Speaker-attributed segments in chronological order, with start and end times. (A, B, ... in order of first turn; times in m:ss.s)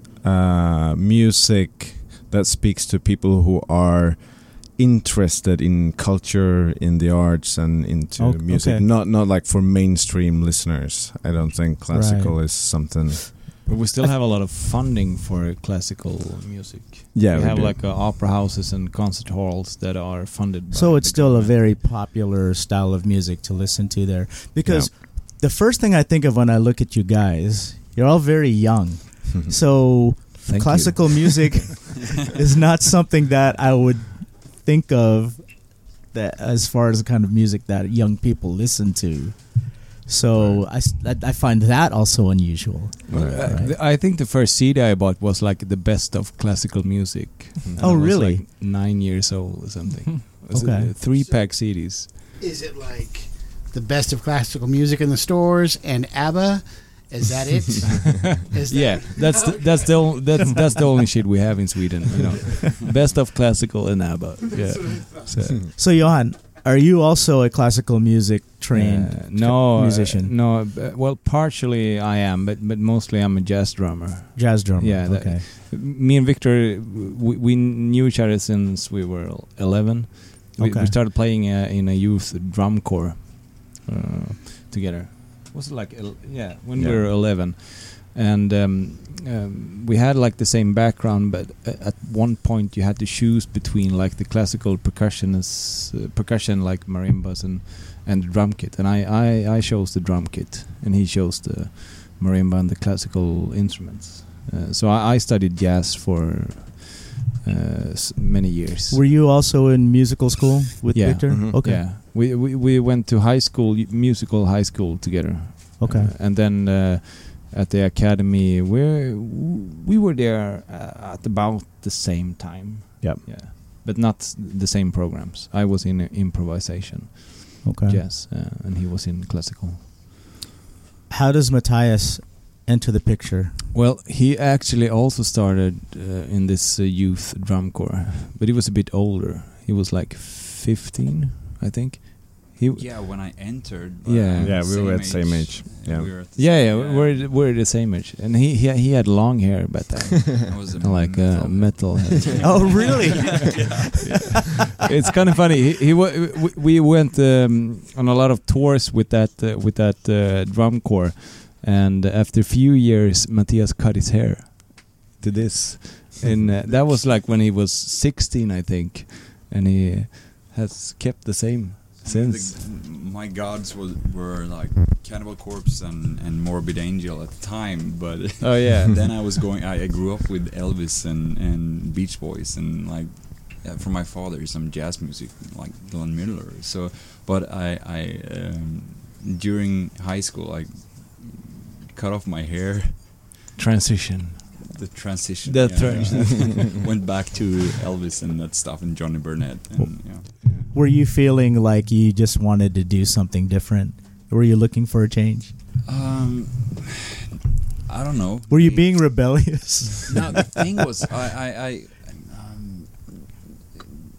0:00.2-0:13.4 A
0:08.2-0:08.8 B
0:11.9-0:13.0 B
0:13.7-0:21.8 C
0:17.1-0:17.8 A
0:20.7-0:43.8 B
0:24.6-0:24.9 A
0:30.4-0:31.4 C
0:40.3-0:40.7 A
0:43.1-0:52.1 C
0:43.1-0:43.5 A
0:47.7-0:48.1 A
0:47.8-0:48.4 B
0:50.5-0:50.9 B
0:51.0-0:51.8 D
0:52.4-1:01.1 D
0:58.6-1:05.6 C
1:02.2-1:02.5 D
1:04.7-1:05.3 D
1:05.7-1:10.3 B
1:08.7-1:49.0 C
1:14.4-1:15.4 B
1:20.6-1:21.0 B
1:26.8-1:27.1 A
1:48.9-1:51.8 B
1:50.9-2:09.9 C
1:51.3-1:51.6 A
1:55.8-1:56.1 B
2:03.0-2:03.3 A
2:07.6-2:08.0 B
2:11.1-2:13.6 B
2:13.7-2:23.0 C
2:22.7-2:27.4 E
2:24.0-2:24.7 C
2:24.4-2:26.1 A
2:26.4-2:52.7 C
2:30.5-2:33.7 E
2:32.4-2:33.6 B
2:52.0-3:13.4 E
2:58.4-2:59.1 C
3:13.6-3:14.6 C
3:14.6-3:20.6 E
3:15.4-3:16.6 C
3:15.8-3:16.1 A
3:19.8-3:25.5 B
3:25.8-3:27.2 E
3:27.9-3:29.5 E
3:28.5-3:30.5 B
3:30.1-3:33.9 E